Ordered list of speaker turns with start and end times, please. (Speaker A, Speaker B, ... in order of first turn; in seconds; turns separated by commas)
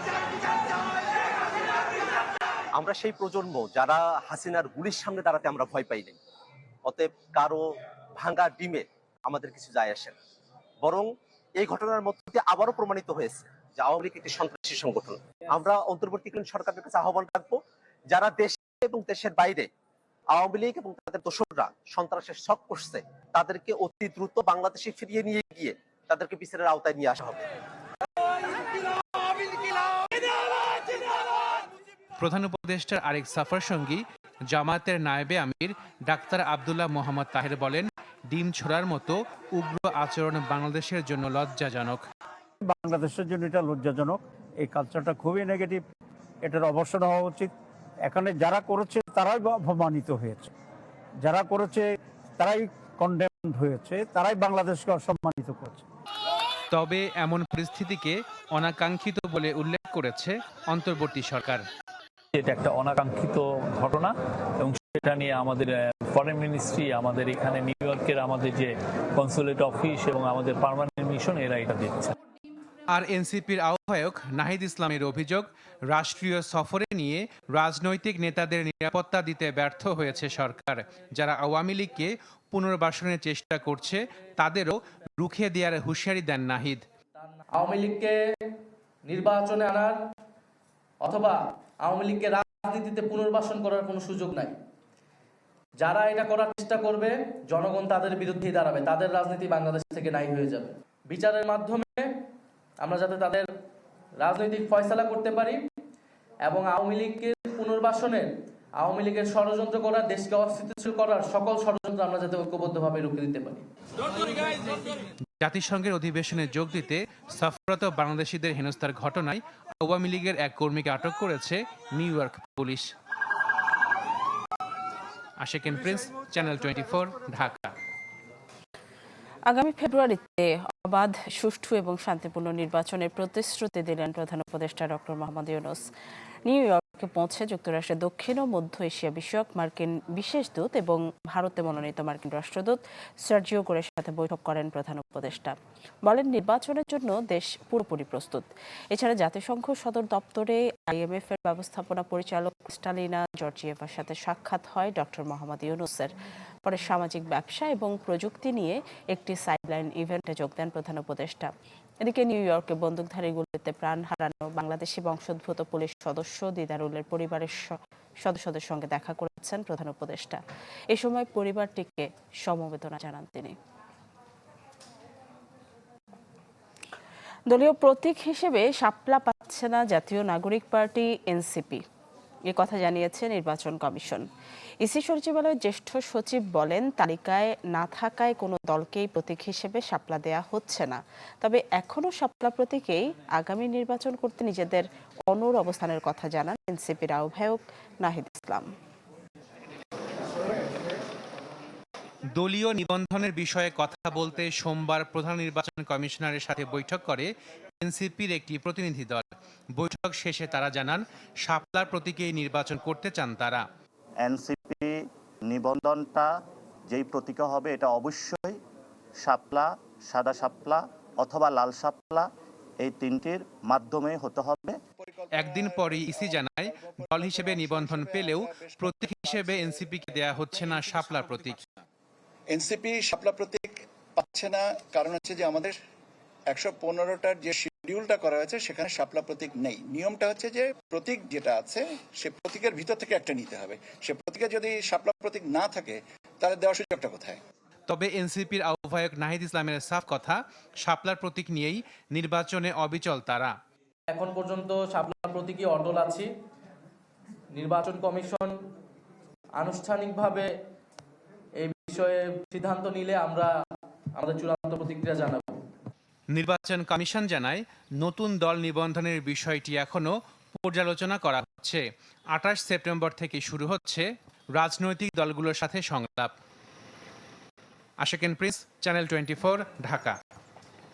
Speaker A: 2.8-6.2, Speaker A: 6.9-7.6, Speaker A: 8.2-10.2, Speaker A: 10.8-17.6, Speaker A: 18.1-19.7, Speaker A: 20.3-27.4, Speaker B: 32.2-42.0, Speaker C: 42.7-45.8, Speaker C: 46.4-47.5, Speaker C: 48.1-50.5, Speaker C: 51.2-51.9, Speaker C: 52.4-55.8, Speaker B: 56.7-61.7, Speaker D: 62.3-72.1, Speaker B: 72.9-86.8, Speaker E: 87.4-88.2, Speaker E: 89.1-90.0, Speaker E: 91.0-94.6, Speaker E: 95.8-102.1, Speaker E: 102.8-103.5, Speaker E: 104.2-105.6, Speaker E: 106.5-108.3, Speaker E: 108.8-113.7, Speaker B: 115.4-122.9, Speaker B: 125.4-127.7, Speaker F: 129.5-135.9, Speaker F: 136.5-156.1, Speaker F: 156.7-173.6, Speaker F: 177.5-181.8, Speaker F: 182.5-184.2, Speaker F: 184.8-198.7, Speaker B: 202.3-213.7, Speaker G: 214.2-214.9, Speaker G: 215.5-216.3, Speaker G: 216.9-218.6, Speaker G: 219.2-222.3, Speaker G: 222.8-224.8, Speaker H: 225.0-231.5, Speaker B: 225.3-231.6, Speaker H: 232.5-235.8, Speaker H: 236.5-247.4, Speaker B: 247.9-253.6, Speaker E: 254.1-256.3, Speaker E: 257.6-258.6, Speaker E: 259.6-260.5, Speaker E: 261.6-263.5, Speaker E: 264.2-265.6, Speaker B: 266.4-276.3, Speaker B: 278.0-280.2